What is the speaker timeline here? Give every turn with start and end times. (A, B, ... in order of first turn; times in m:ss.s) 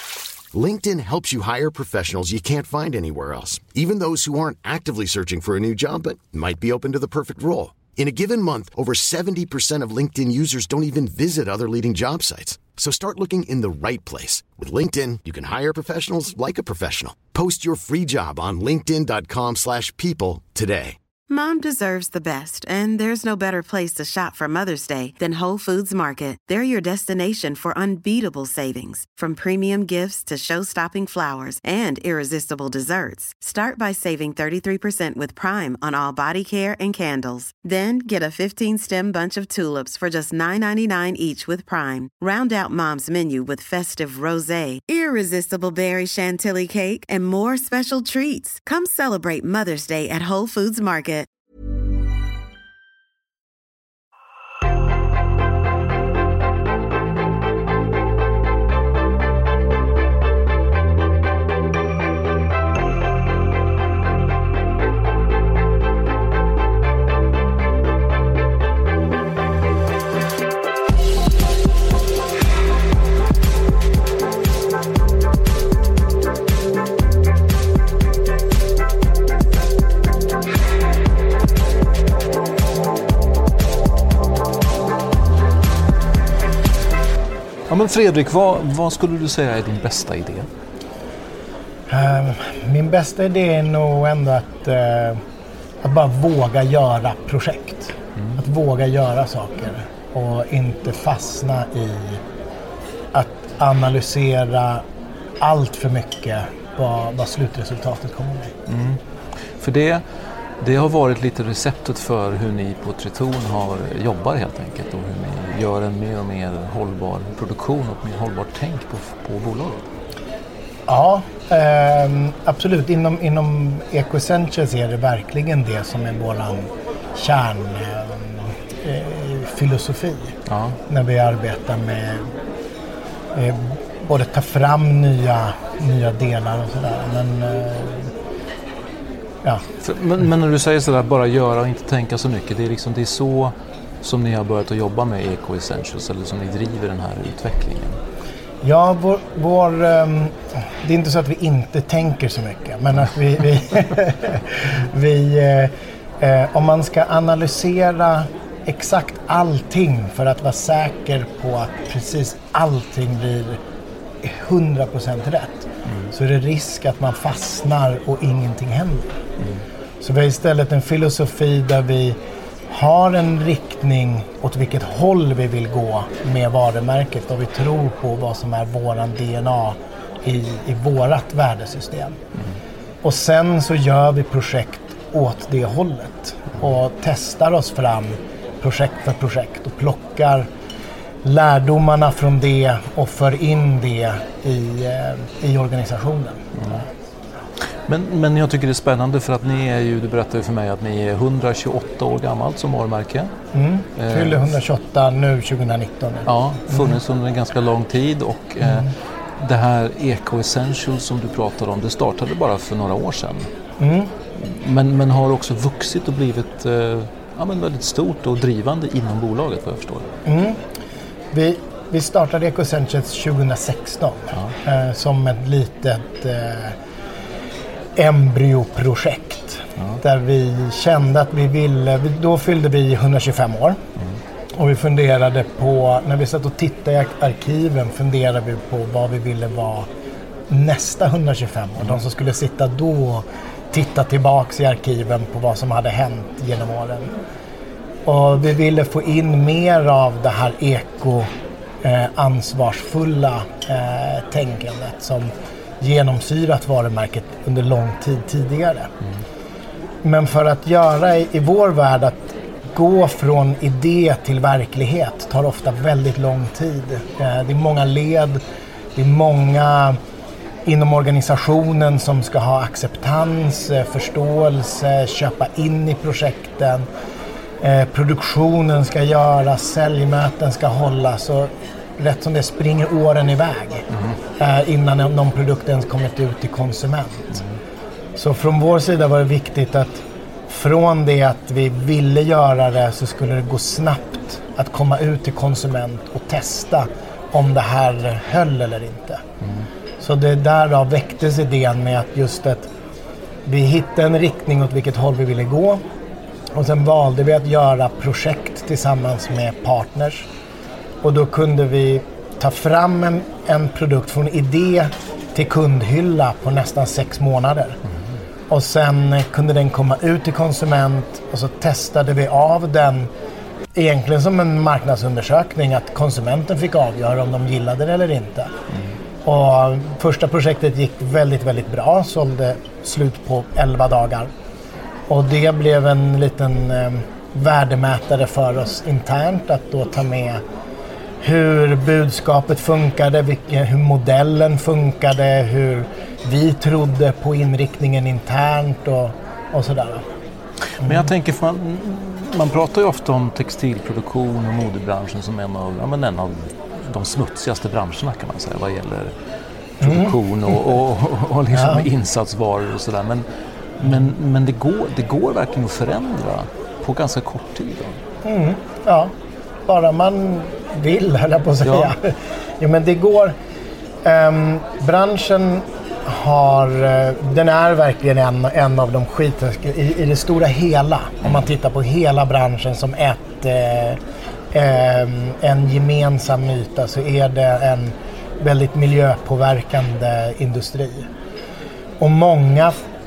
0:00.5-0:21.0 A
0:21.3-0:51.3 B
1:27.7-1:30.5 C
1:31.9-1:35.2 D
1:35.8-1:42.2 D
1:43.1-1:44.8 D
1:45.4-1:48.5 D
1:48.7-1:49.0 C
1:49.6-1:50.0 C
1:50.6-1:59.9 C
2:00.9-2:10.4 D
2:10.5-2:10.8 C
2:10.9-2:12.3 D
2:13.3-2:18.1 D
2:19.8-2:28.0 C
2:28.6-2:43.6 D
2:44.2-2:49.2 D
2:45.8-2:46.1 C
2:50.0-2:52.2 D
2:52.7-3:02.2 D
3:03.0-3:10.5 D
3:11.2-3:16.8 D
3:16.6-3:16.8 C
3:17.9-3:23.3 C
3:23.5-3:27.0 D
3:24.0-3:24.4 C
3:26.3-3:33.5 C
3:28.6-3:28.9 D
3:33.8-3:34.1 D
3:34.3-3:40.1 C
3:40.2-3:40.6 D
3:41.3-3:46.8 D
3:48.0-3:53.8 D
3:54.5-3:59.9 D
4:00.5-4:07.1 D
4:08.0-4:11.3 D
4:11.8-4:18.9 D
4:20.0-4:28.4 D
4:29.0-4:30.0 D
4:30.6-4:36.9 D
4:37.6-4:47.4 D
4:48.2-4:59.2 D
5:00.0-5:02.7 D
5:03.4-5:05.8 D
5:06.5-5:10.3 D
5:11.0-5:17.8 D
5:18.5-5:23.1 D
5:23.7-5:28.5 D
5:29.2-5:34.3 D
5:35.1-5:40.4 D
5:41.2-5:50.0 D
5:50.8-5:59.1 C
5:59.8-6:00.2 D
5:59.8-6:03.2 C
6:01.5-6:01.9 D
6:03.8-6:08.0 C
6:08.2-6:09.1 D
6:09.6-6:13.3 D
6:11.6-6:11.9 C
6:14.0-6:24.0 D
6:24.5-6:31.1 D
6:32.0-6:32.8 D